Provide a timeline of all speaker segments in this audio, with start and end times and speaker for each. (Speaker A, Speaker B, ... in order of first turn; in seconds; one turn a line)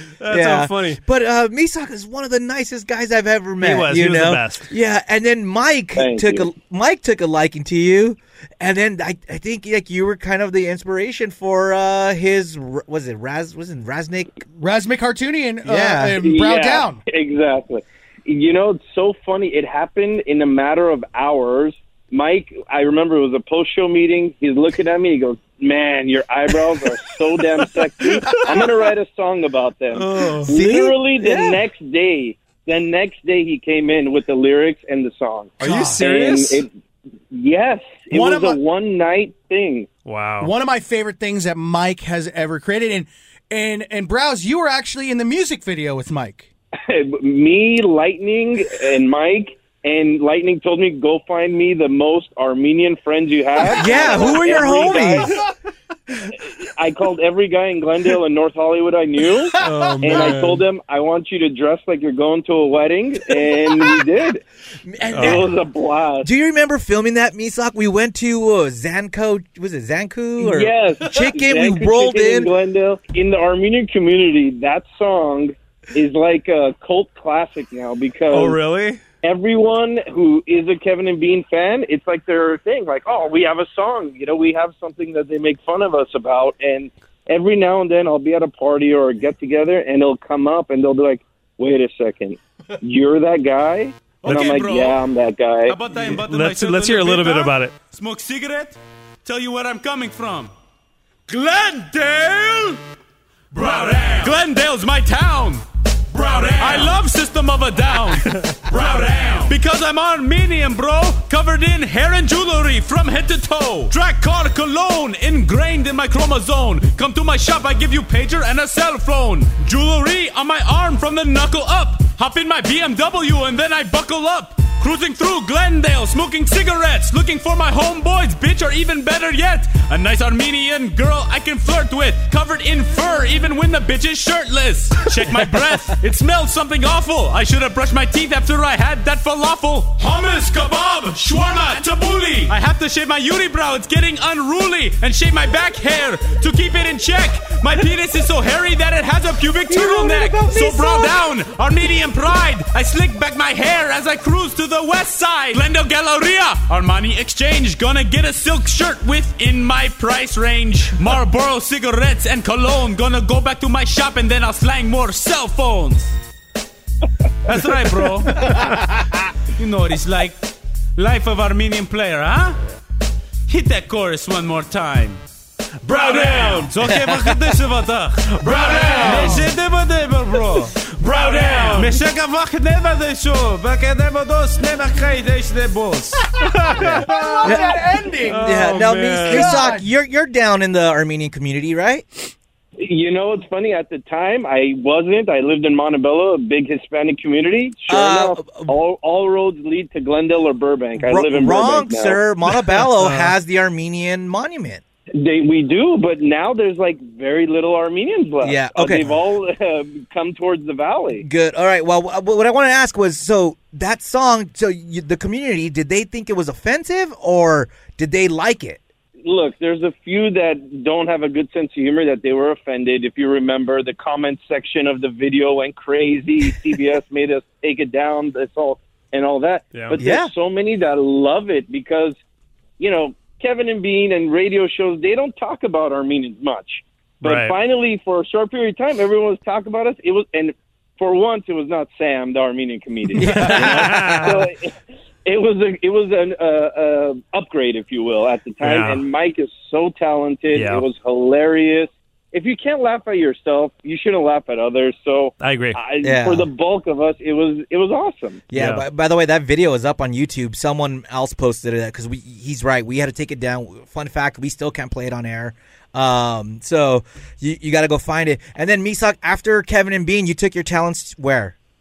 Speaker A: 0.2-1.0
Speaker B: 0.3-14.3
Speaker A: 3.6-4.7
Speaker C: 6.0-6.5
Speaker D: 14.6-17.0
Speaker B: 15.7-16.2
Speaker C: 16.2-36.7
Speaker B: 30.5-31.6
Speaker D: 35.6-36.0
Speaker A: 35.6-36.6
Speaker C: 37.3-39.9
Speaker D: 38.1-38.6
Speaker A: 40.1-40.5
Speaker D: 40.4-46.5
Speaker C: 46.8-55.4
Speaker B: 53.6-55.3
Speaker C: 56.6-64.4
Speaker A: 59.6-60.6
Speaker B: 64.8-65.5
Speaker A: 65.1-65.5
Speaker C: 65.2-66.3
Speaker B: 66.2-72.5
Speaker C: 70.4-78.6
Speaker A: 78.3-79.0
Speaker C: 79.2-95.8
Speaker E: 94.2-95.0
Speaker E: 95.7-100.5
Speaker A: 96.0-97.7
Speaker E: 101.3-102.8
Speaker E: 103.5-166.1
Speaker A: 106.6-106.9
Speaker B: 150.1-150.8
Speaker E: 167.4-168.9
Speaker E: 169.6-170.4
Speaker E: 171.0-172.6
Speaker E: 173.5-175.2
Speaker A: 175.8-176.8
Speaker E: 175.9-186.2
Speaker B: 176.8-177.3
Speaker A: 178.4-179.4
Speaker D: 178.7-179.5
Speaker B: 179.1-179.3
Speaker A: 181.0-181.9
Speaker D: 181.1-181.8
Speaker A: 186.4-187.6
Speaker B: 186.8-192.3
Speaker D: 186.8-188.5
Speaker A: 188.3-189.7
Speaker D: 189.3-189.9
Speaker C: 192.8-202.2
Speaker B: 197.9-198.7
Speaker B: 201.0-204.8
Speaker A: 202.9-203.3
Speaker C: 205.2-211.3
Speaker B: 208.4-209.2
Speaker B: 211.2-218.8
Speaker C: 219.2-232.2
Speaker B: 229.9-230.3
Speaker C: 232.8-244.7
Speaker A: 237.2-237.6
Speaker B: 243.2-244.3
Speaker A: 243.2-244.4
Speaker C: 245.2-258.4
Speaker A: 248.6-249.0
Speaker A: 250.5-250.8
Speaker A: 255.4-255.8
Speaker B: 256.0-256.5
Speaker B: 258.5-271.6
Speaker A: 258.5-258.9